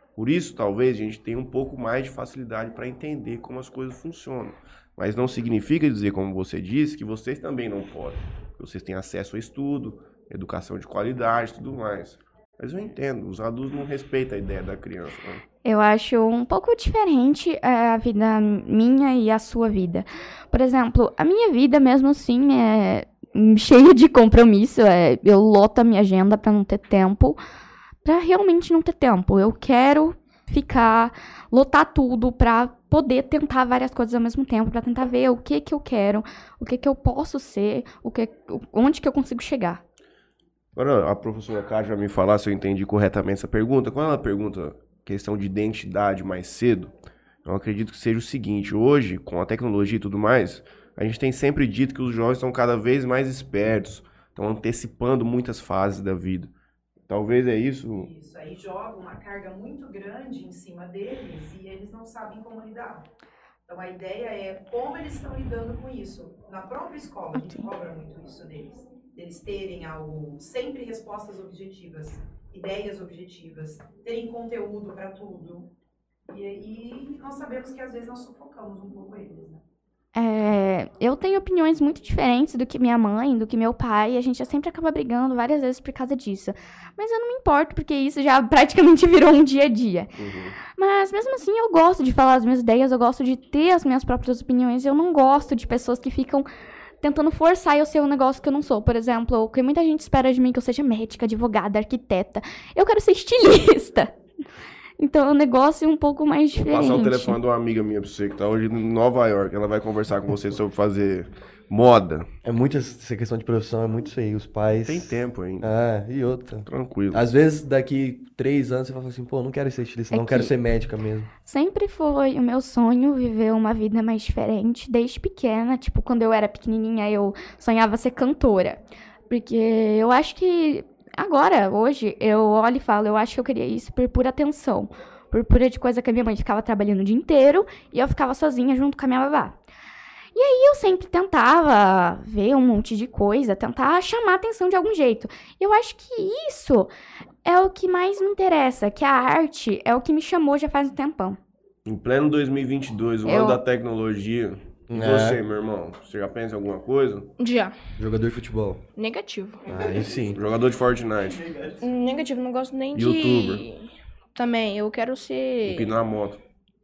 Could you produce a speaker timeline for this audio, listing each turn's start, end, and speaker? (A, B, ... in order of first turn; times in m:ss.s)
0:00.2-0:15.4 A
0:15.6-0:27.4 B
0:28.0-0:39.8 B
0:40.8-0:46.9 A
0:47.4-0:56.5 A
0:57.1-0:58.1 A
0:57.9-1:03.0 C
1:03.7-1:15.7 C
1:07.4-1:07.7 B
1:16.3-1:19.6 C
1:20.2-1:30.1 B
1:30.2-1:30.6 A
1:30.7-1:36.5 B
1:37.0-1:44.1 B
1:45.0-1:47.4 B
1:46.5-1:52.3 A
1:52.4-2:01.3 D
1:54.8-1:55.7 A
1:56.6-1:57.2 A
2:00.1-2:00.5 B
2:01.4-2:19.6 B
2:20.4-2:26.9 B
2:27.4-2:31.4 B
2:31.9-2:37.3 A
2:33.2-2:33.6 B
2:34.9-2:35.4 D
2:37.4-2:37.7 E
2:38.0-2:38.8 D
2:39.0-2:39.6 E
2:39.7-2:40.4 D
2:40.3-2:41.4 A
2:41.8-2:45.9 E
2:43.0-2:43.6 A
2:45.7-2:46.4 A